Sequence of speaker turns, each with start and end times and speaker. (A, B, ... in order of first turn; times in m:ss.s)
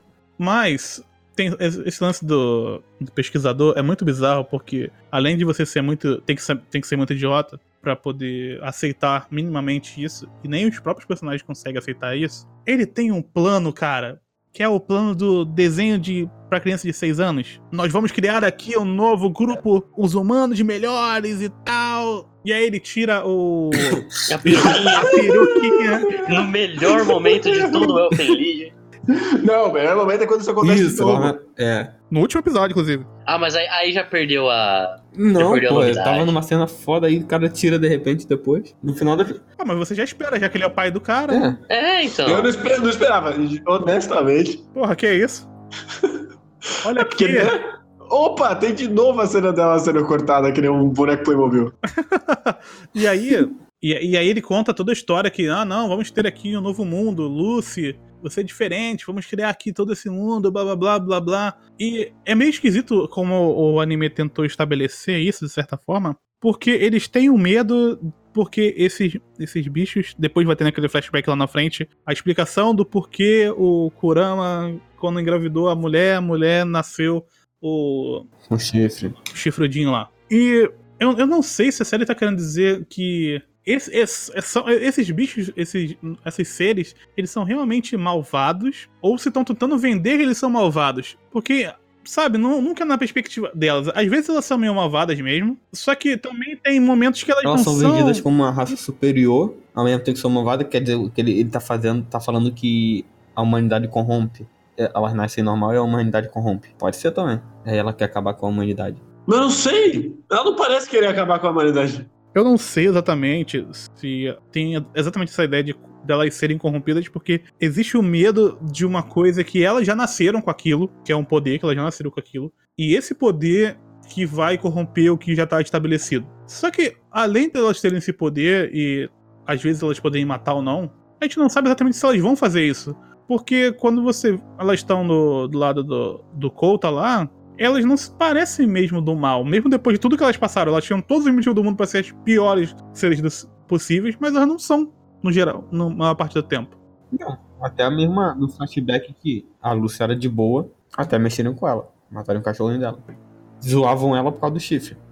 0:00.4-0:26.2 A
0:24.3-0:25.2 B
0:24.5-0:25.3 C
0:26.2-0:28.7 B
0:26.4-0:27.9 C
0:29.1-0:31.4 C
0:30.6-0:31.9 D
0:32.1-0:33.1 A
0:33.2-0:36.3 B
0:35.1-0:39.4 D
0:39.6-0:41.5 A
0:41.3-0:41.6 D
0:41.7-0:42.5 B
0:42.2-0:44.6 C
0:44.7-0:45.5 A
0:46.8-0:47.5 A
0:47.0-0:51.7 C
0:52.0-1:18.3 A
1:18.5-1:19.2 D
1:19.3-1:38.2 A
1:37.4-1:49.0 D
1:49.3-1:52.1 C
1:52.3-2:26.7 A
2:27.1-2:33.0 D
2:33.6-2:35.0 D